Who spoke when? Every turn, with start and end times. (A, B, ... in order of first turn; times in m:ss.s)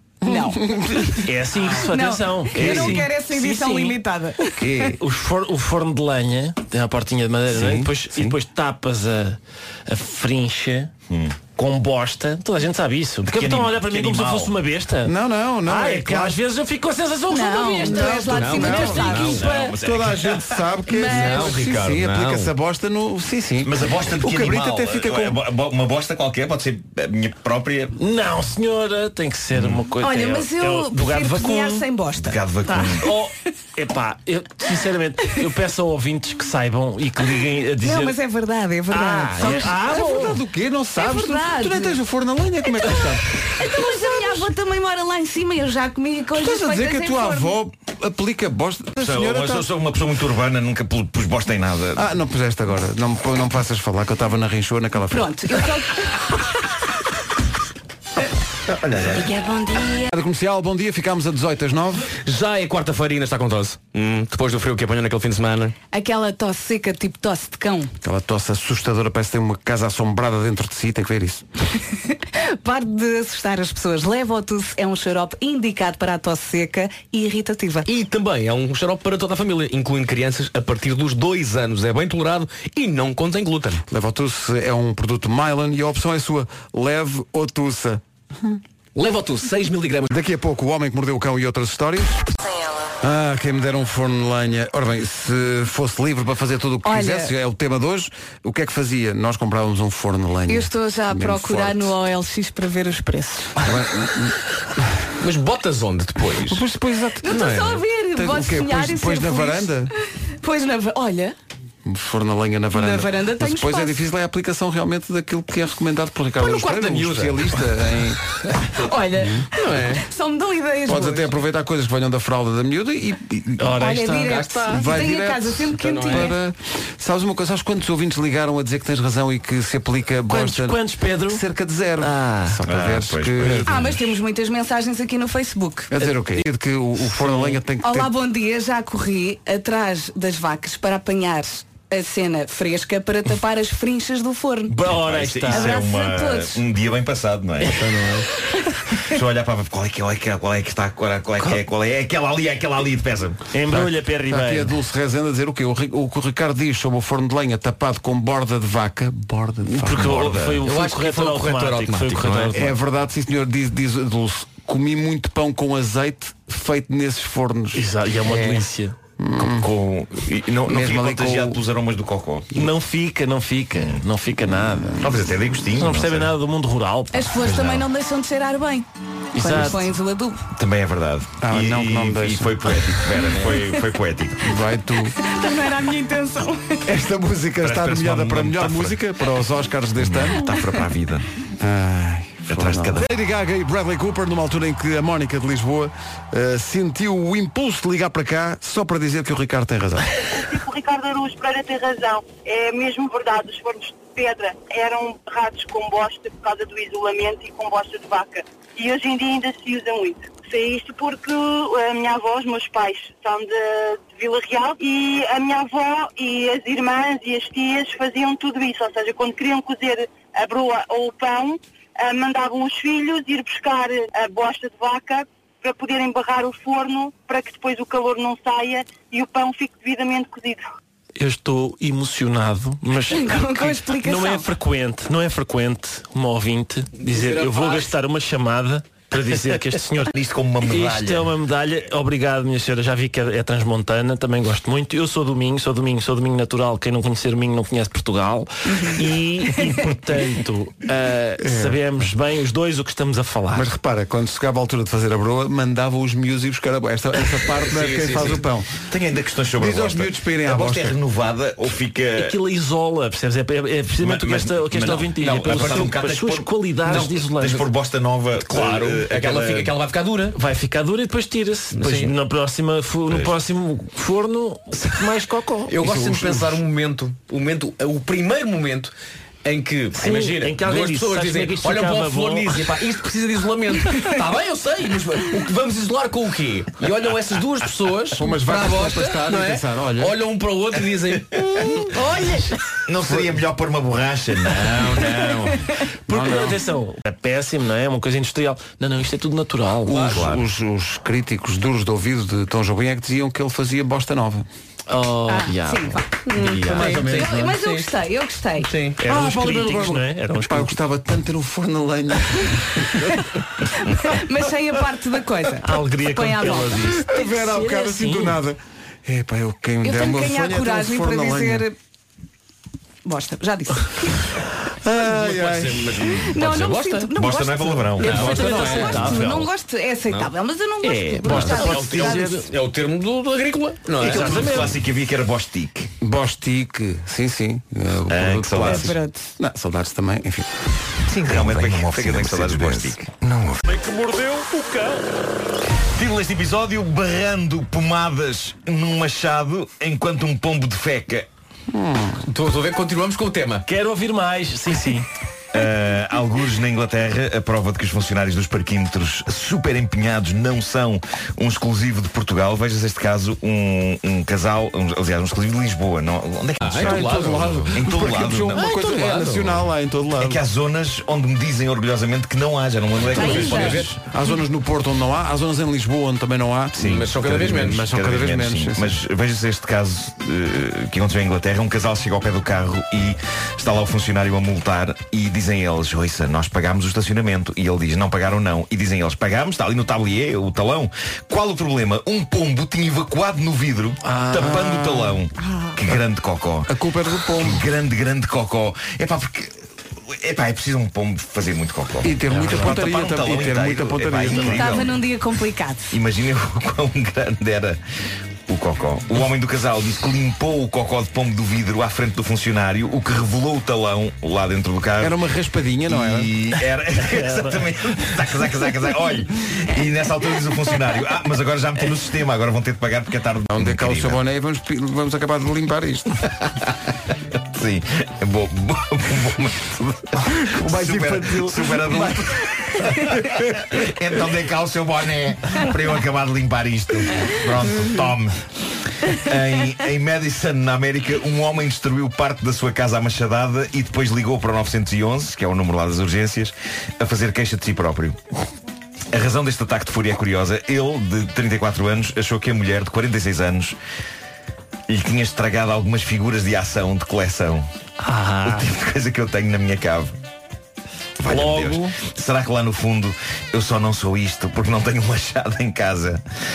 0:00.2-0:04.9 A
0:00.3-0:01.0 B
0:01.1-0:04.0 C
0:02.6-0:03.0 B
0:04.6-0:05.0 B
0:04.9-0:10.9 C
0:07.5-0:08.4 B
0:11.1-0:11.4 D
0:11.5-0:15.1 C
0:13.2-0:14.5 D
0:15.0-0:16.4 B
0:15.6-0:19.3 C
0:17.3-0:19.7 A
0:17.8-0:25.4 B
0:18.3-0:19.5 E
0:19.2-0:20.5 D
0:20.9-0:21.4 A
0:21.0-0:22.5 E
0:23.6-0:28.0 D
0:28.0-0:31.9 C
0:29.6-0:29.8 D
0:30.0-0:32.8 A
0:32.2-0:33.0 D
0:32.8-0:38.2 C
0:37.8-0:40.1 A
0:38.9-0:40.4 C
0:39.4-0:44.1 B
0:41.0-0:42.0 A
0:43.5-0:47.6 A
0:46.3-0:49.7 B
0:49.0-0:52.0 D
0:52.0-0:55.6 B
0:55.1-0:56.4 A
0:58.8-0:59.2 B
1:00.1-1:02.1 B
1:02.2-1:05.8 E
1:05.9-1:07.9 A
1:08.0-1:11.4 B
1:12.1-1:17.8 A
1:17.8-1:23.8 E
1:23.9-1:28.6 B
1:29.0-1:30.1 E
1:30.1-1:32.3 B
1:33.0-1:42.0 B
1:36.8-1:37.3 A
1:40.5-1:43.6 A
1:43.6-1:44.8 B
1:45.2-1:46.6 E
1:46.5-1:49.9 B
1:47.2-1:49.9 A
1:50.4-1:51.4 A
1:51.8-1:58.4 B
1:52.7-1:54.0 A
1:56.4-1:57.5 E
1:58.8-2:01.3 A
1:59.1-1:59.5 B
1:59.5-2:00.0 E
2:00.9-2:03.8 B
2:03.6-2:04.4 C
2:03.7-2:06.3 A
2:04.2-2:05.0 E
2:04.6-2:13.9 B
2:05.8-2:06.3 E
2:10.3-2:11.4 C
2:12.0-2:12.6 C
2:12.7-2:13.9 D
2:13.7-2:15.9 A
2:15.9-2:18.1 B
2:17.2-2:17.5 C
2:17.8-2:24.8 A
2:24.7-2:25.8 C
2:24.9-2:27.8 D
2:25.5-2:26.6 A
2:27.7-2:28.2 C
2:29.0-2:33.4 D
2:33.5-2:34.7 C
2:33.7-2:40.5 B
2:39.7-2:42.8 C
2:40.0-2:40.6 D
2:40.6-2:42.6 E
2:42.5-2:48.6 B
2:47.8-2:49.0 C
2:49.2-2:49.7 B
2:49.4-2:52.5 D
2:50.7-2:51.6 B
2:52.5-2:55.0 C
2:55.0-2:56.3 D
2:55.8-2:57.8 C
2:57.1-3:00.4 A
2:59.4-2:59.9 C
3:00.6-3:04.5 D
3:01.4-3:03.2 B
3:04.4-3:05.2 B
3:05.1-3:06.8 A
3:06.9-3:10.5 B
3:07.6-3:09.0 D
3:10.0-3:11.3 D
3:11.6-3:20.2 B
3:12.5-3:13.0 D
3:20.3-3:50.6 F
3:51.2-4:00.1 C
3:53.1-3:54.5 A
3:57.1-3:57.9 E
4:00.1-4:01.3 D
4:00.7-4:13.7 C
4:11.4-4:11.8 B
4:13.5-4:18.9 B
4:17.6-4:18.4 E
4:18.9-4:22.4 D
4:19.6-4:21.0 B
4:22.2-4:27.7 C
4:24.0-4:29.7 D
4:25.4-4:25.9 E
4:28.5-4:30.4 E
4:30.3-4:36.2 C
4:31.7-4:32.1 E
4:35.7-4:38.9 E
4:39.4-4:51.5 E
4:39.9-4:42.8 C
4:48.1-4:50.2 B
4:52.9-4:55.7 D
4:56.1-5:00.1 C
4:56.1-4:56.6 B
4:59.9-5:04.5 B
4:59.9-5:00.3 E
5:00.1-5:00.4 D
5:04.9-5:07.2 C
5:05.3-5:08.7 A
5:06.3-5:07.9 E
5:06.4-5:07.6 B
5:08.6-5:09.0 E
5:09.0-5:10.8 C
5:09.0-5:13.0 B
5:13.7-5:16.9 A
5:15.6-5:18.4 C
5:16.9-5:21.7 B
5:19.8-5:21.7 A
5:23.0-5:24.3 A
5:24.8-5:26.0 B
5:25.0-5:26.7 E
5:26.0-5:32.4 A
5:27.1-5:28.2 D
5:28.0-5:29.5 C
5:28.0-5:29.2 E
5:28.2-5:29.0 B
5:30.8-5:32.5 C
5:31.4-5:34.5 E
5:34.0-5:35.9 D
5:34.0-5:34.8 C
5:36.0-5:40.5 B
5:38.1-5:38.9 D
5:38.6-5:39.3 A
5:41.1-5:43.4 D
5:41.1-5:43.5 B
5:43.7-5:45.0 C
5:46.0-5:51.3 D
5:51.7-5:52.2 B
5:52.3-5:53.6 E
5:53.7-5:55.1 C
5:55.5-6:08.7 D
6:06.6-6:07.7 E
6:06.7-6:10.4 B
6:08.6-6:09.2 E
6:10.2-6:14.0 D
6:13.2-6:13.8 A
6:13.3-6:19.0 B
6:13.4-6:14.0 E
6:16.8-6:17.8 E
6:16.8-6:36.7 D
6:34.0-6:35.0 C
6:34.3-6:35.0 B
6:35.4-6:35.8 A
6:36.7-6:37.6 B
6:37.4-6:39.6 D
6:40.1-6:45.0 D
6:42.0-6:44.9 B
6:44.3-6:46.0 A
6:45.9-6:47.8 D
6:48.5-6:55.2 D
6:55.0-6:56.3 B
6:55.9-7:04.2 D
6:57.1-6:57.6 C
7:03.5-7:06.3 B
7:07.5-7:18.4 D
7:10.3-7:12.3 B
7:13.0-7:13.6 B
7:19.1-7:28.2 D
7:29.1-7:33.8 D
7:34.9-7:37.7 D
7:38.0-7:38.7 C
7:38.4-7:40.2 D
7:41.2-7:46.2 D
7:41.3-7:42.0 C